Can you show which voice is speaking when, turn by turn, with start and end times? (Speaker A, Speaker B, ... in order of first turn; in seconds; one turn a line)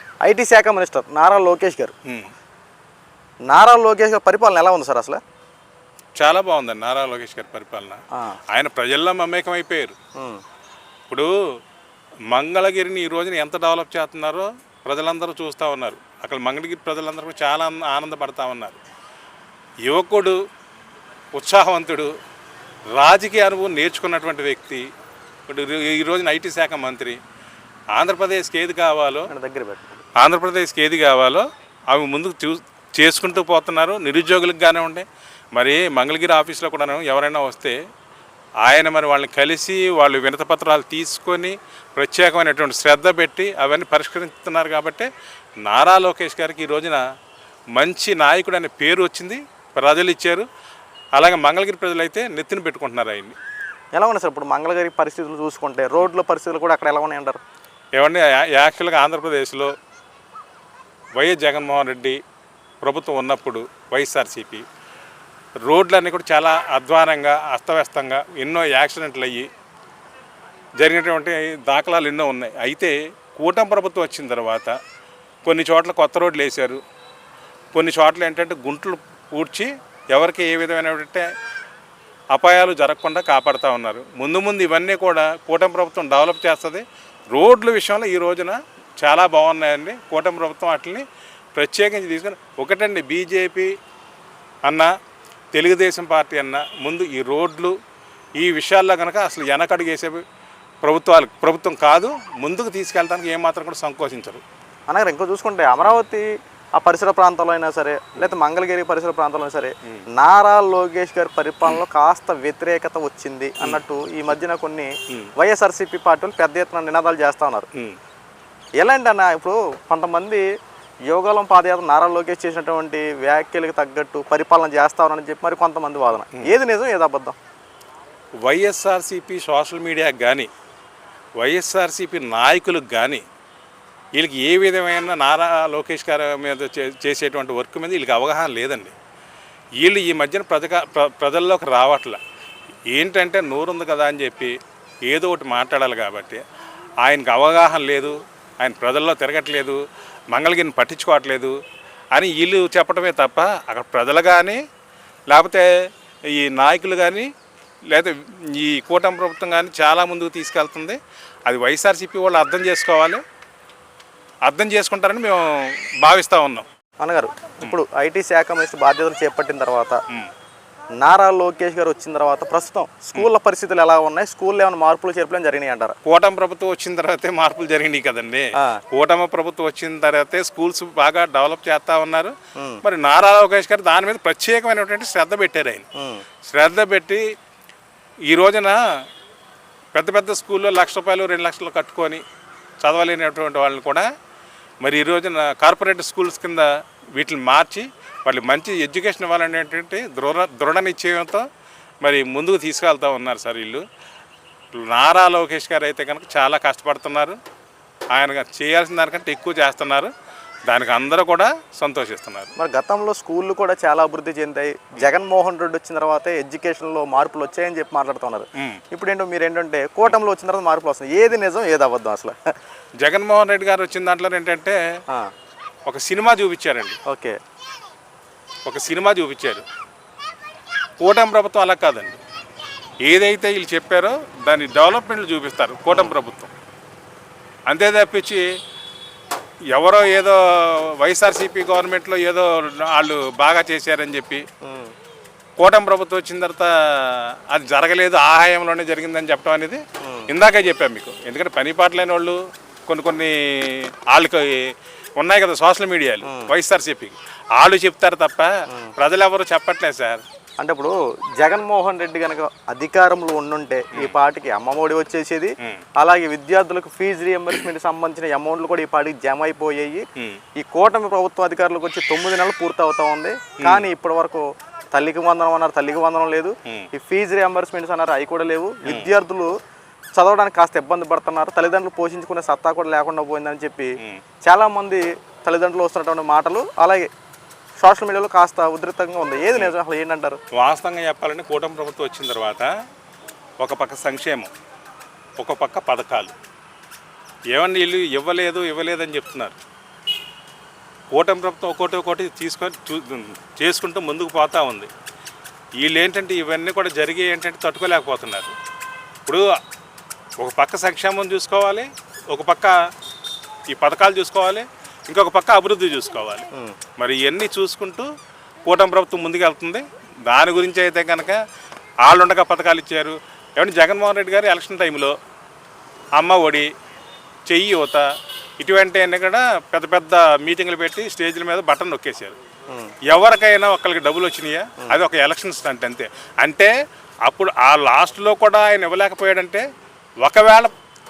Speaker A: 0.2-1.9
Speaker B: 2.1-2.3
Speaker A: 3.5-5.2
Speaker B: 6.2-9.9
Speaker B: 12.3-18.8
Speaker B: 19.9-20.4
Speaker B: 21.3-22.1
Speaker B: 22.9-24.8
Speaker B: 25.5-27.2
Speaker B: 27.9-29.3
Speaker A: 29.3-30.1
Speaker B: 30.2-37.8
Speaker B: 38.6-45.1
Speaker B: 45.7-47.0
Speaker B: 47.8-50.5
Speaker B: 51.2-53.4
Speaker A: 54.0-57.4
Speaker B: 58.0-59.7
Speaker B: 61.2-62.2
Speaker B: 62.8-64.7
Speaker B: 65.7-69.5
Speaker B: 70.8-74.7
Speaker B: 75.5-76.8
Speaker B: 77.7-81.3
Speaker B: 82.3-91.0
Speaker B: 91.5-93.7
Speaker B: 94.7-94.9
Speaker B: 95.5-97.8
Speaker B: 98.4-100.2
Speaker B: 100.8-104.4
Speaker A: 104.9-106.3
Speaker A: 106.8-117.7
Speaker A: 118.8-120.4
Speaker A: 121.1-127.4
Speaker B: 128.4-130.5
Speaker B: 131.4-133.2
Speaker B: 134.2-138.9
Speaker B: 139.8-142.2
Speaker B: 142.9-146.4
Speaker B: 147.0-151.6
Speaker B: 152.1-154.6
Speaker B: 155.3-155.7
Speaker B: 156.3-157.3
Speaker B: 157.9-163.2
Speaker B: 164.5-166.7
Speaker A: 167.0-170.0
Speaker A: 171.0-176.0
Speaker B: 176.1-185.9
Speaker A: 186.0-186.2
Speaker B: 186.5-187.2
Speaker B: 188.3-188.8
Speaker B: 189.9-192.2
Speaker B: 192.8-194.1
Speaker B: 194.8-201.4
Speaker B: 202.0-203.8
Speaker B: 204.8-207.4
Speaker B: 208.1-210.1
Speaker B: 210.7-212.5
Speaker A: 212.6-222.3
Speaker B: 223.0-224.8
Speaker B: 225.9-227.0
Speaker A: 227.1-227.4
Speaker B: 228.6-229.7
Speaker B: 231.0-232.2
Speaker B: 233.0-236.5
Speaker B: 237.7-238.4
Speaker B: 239.7-244.4
Speaker A: 244.6-244.9
Speaker B: 245.6-260.2
Speaker A: 250.0-250.3
Speaker A: 260.6-270.0
Speaker A: 270.6-279.5
Speaker B: 273.6-273.9
Speaker B: 278.9-279.1
Speaker A: 280.2-283.9
Speaker A: 284.5-287.1
Speaker A: 287.8-290.4
Speaker B: 290.5-292.7
Speaker B: 293.6-294.5
Speaker B: 295.4-296.3
Speaker B: 297.5-299.6
Speaker B: 301.1-304.9
Speaker B: 305.8-308.6
Speaker B: 310.4-312.8
Speaker B: 313.7-318.1
Speaker B: 318.7-321.4
Speaker B: 322.1-325.1
Speaker B: 326.2-326.7
Speaker B: 327.5-328.1
Speaker B: 328.6-332.4
Speaker B: 333.1-336.7
Speaker B: 337.3-339.6
Speaker B: 340.2-340.7